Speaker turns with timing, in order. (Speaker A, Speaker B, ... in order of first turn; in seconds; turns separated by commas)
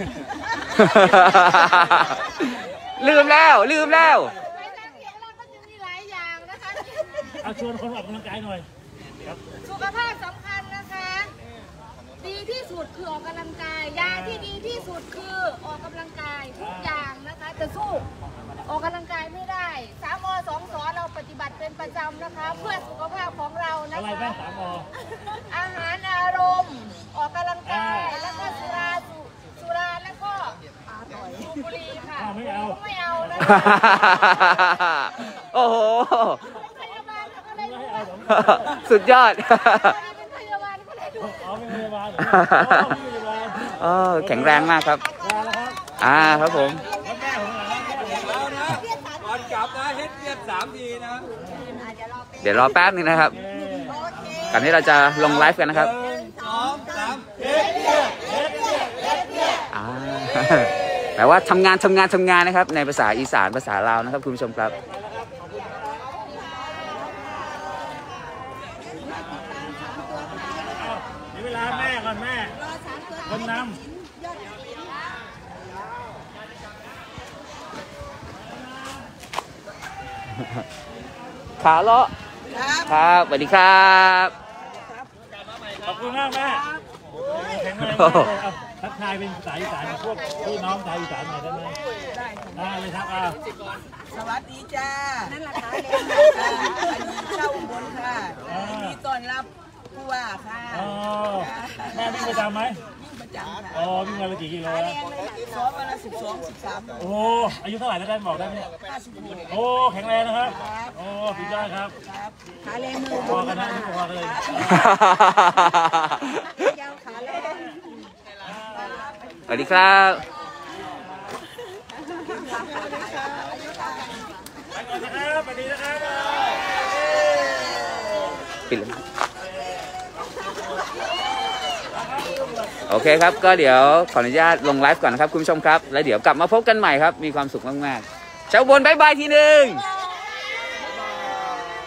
Speaker A: 0.6-2.1, Speaker B: 0.8-4.3, Speaker A: 3.0-4.0, Speaker A: 4.5-7.5, Speaker C: 7.4-8.7, Speaker A: 9.6-11.3, Speaker A: 12.2-18.1, Speaker C: 14.0-14.5, Speaker C: 16.6-17.1, Speaker A: 18.7-24.3, Speaker C: 23.9-24.9, Speaker A: 25.5-33.9, Speaker C: 27.6-28.2, Speaker C: 32.2-34.1, Speaker B: 33.4-36.4, Speaker A: 36.9-37.5, Speaker C: 37.5-38.9, Speaker B: 38.3-40.0, Speaker A: 39.6-41.5, Speaker C: 41.2-48.5, Speaker B: 42.2-43.0, Speaker B: 43.8-45.0, Speaker B: 46.0-46.8, Speaker A: 48.2-49.9, Speaker D: 48.2-51.3, Speaker E: 51.7-53.0, Speaker B: 52.4-53.4, Speaker C: 53.3-54.0, Speaker E: 53.9-54.6, Speaker B: 54.5-56.0, Speaker D: 55.4-57.3, Speaker E: 56.4-56.9, Speaker A: 57.4-58.6, Speaker C: 58.2-58.7, Speaker E: 58.3-58.5, Speaker B: 59.7-64.8, Speaker C: 65.2-65.7, Speaker A: 69.1-70.7, Speaker C: 70.7-72.5, Speaker A: 72.8-73.7, Speaker C: 73.3-73.8, Speaker A: 74.5-74.8, Speaker B: 81.6-82.1, Speaker E: 82.5-82.9, Speaker B: 82.9-84.3, Speaker C: 85.8-86.7, Speaker E: 86.5-86.8, Speaker C: 87.3-91.8, Speaker B: 87.8-88.3, Speaker E: 91.9-92.8, Speaker C: 92.5-93.4, Speaker E: 94.1-104.1, Speaker A: 95.2-97.2, Speaker C: 98.5-99.0, Speaker C: 100.7-102.8, Speaker C: 103.7-105.0, Speaker E: 104.6-107.1, Speaker C: 107.0-108.7, Speaker E: 108.8-109.6, Speaker C: 109.5-112.0, Speaker E: 110.4-111.0, Speaker E: 112.0-113.8, Speaker A: 112.7-114.0, Speaker C: 113.2-114.9, Speaker B: 114.6-116.7, Speaker A: 117.0-117.6, Speaker E: 117.1-117.6, Speaker E: 118.7-119.7, Speaker B: 119.5-120.2, Speaker E: 122.3-124.0, Speaker A: 122.5-123.6, Speaker C: 124.7-126.8, Speaker B: 128.7-129.0, Speaker C: 129.6-130.3, Speaker C: 131.9-132.8, Speaker B: 132.9-139.8